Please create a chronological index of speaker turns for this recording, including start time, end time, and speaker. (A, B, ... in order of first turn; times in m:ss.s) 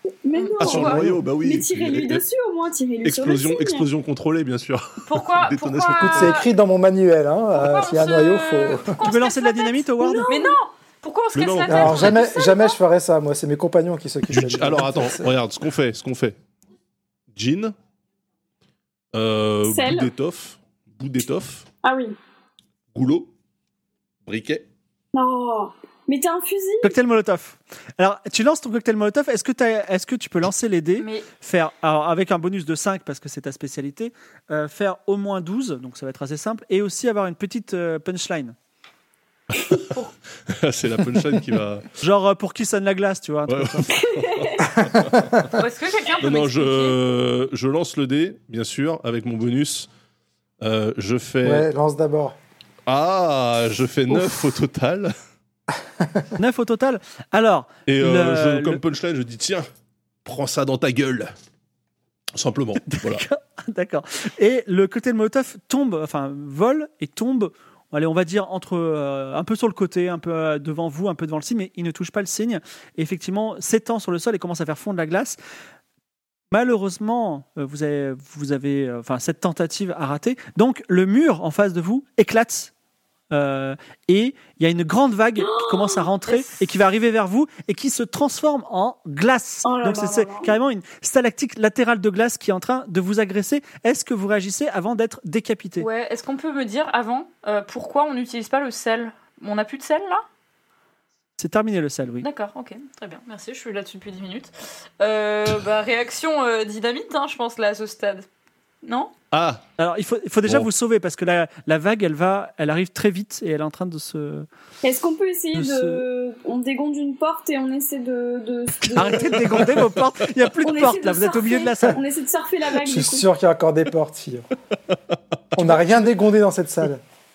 0:00.2-0:03.9 A
0:00.3-0:01.0 B
0:00.6-0:02.2 C
0:03.0-0:06.4 C
0:05.0-0:06.5 B
0:05.9-0:09.0 D
0:07.5-0:12.7 B
0:09.0-0:10.3 E
0:10.0-0:10.5 A
0:11.3-0:12.1 C
0:11.7-0:12.6 A
0:11.7-0:15.3 D
0:14.3-0:16.4 C
0:17.3-0:17.7 C
0:19.1-0:21.7 C
0:19.6-0:20.1 A
0:21.8-0:22.2 A
0:22.9-0:23.3 C
0:24.2-0:24.6 C
0:25.1-0:26.9 A
0:26.8-0:38.6 E
0:31.0-0:31.3 B
0:39.5-0:41.8 C
0:42.0-0:44.1 E
0:43.5-0:45.6 C
0:44.2-0:44.6 A
0:44.8-0:45.5 D
0:45.5-0:47.0 B
0:46.2-0:49.9 C
0:50.6-0:51.6 C
0:51.4-0:52.4 D
0:52.8-0:55.1 C
0:56.0-0:56.3 D
0:56.4-0:58.8 E
0:57.9-0:59.6 C
1:00.2-1:01.3 C
1:02.3-1:03.2 C
1:02.8-1:15.4 E
1:16.5-1:22.7 E
1:23.3-1:35.9 E
1:25.4-1:26.1 A
1:26.3-1:26.6 B
1:29.6-1:30.5 A
1:35.8-1:40.2 B
1:41.4-1:42.3 E
1:42.2-1:48.3 B
1:48.8-1:49.1 B
1:49.3-1:49.6 C
1:49.8-1:54.5 E
1:54.8-1:59.7 A
1:55.5-1:56.0 E
1:58.9-2:02.0 E
2:00.6-2:03.2 A
2:02.8-2:04.4 D
2:05.5-2:07.0 D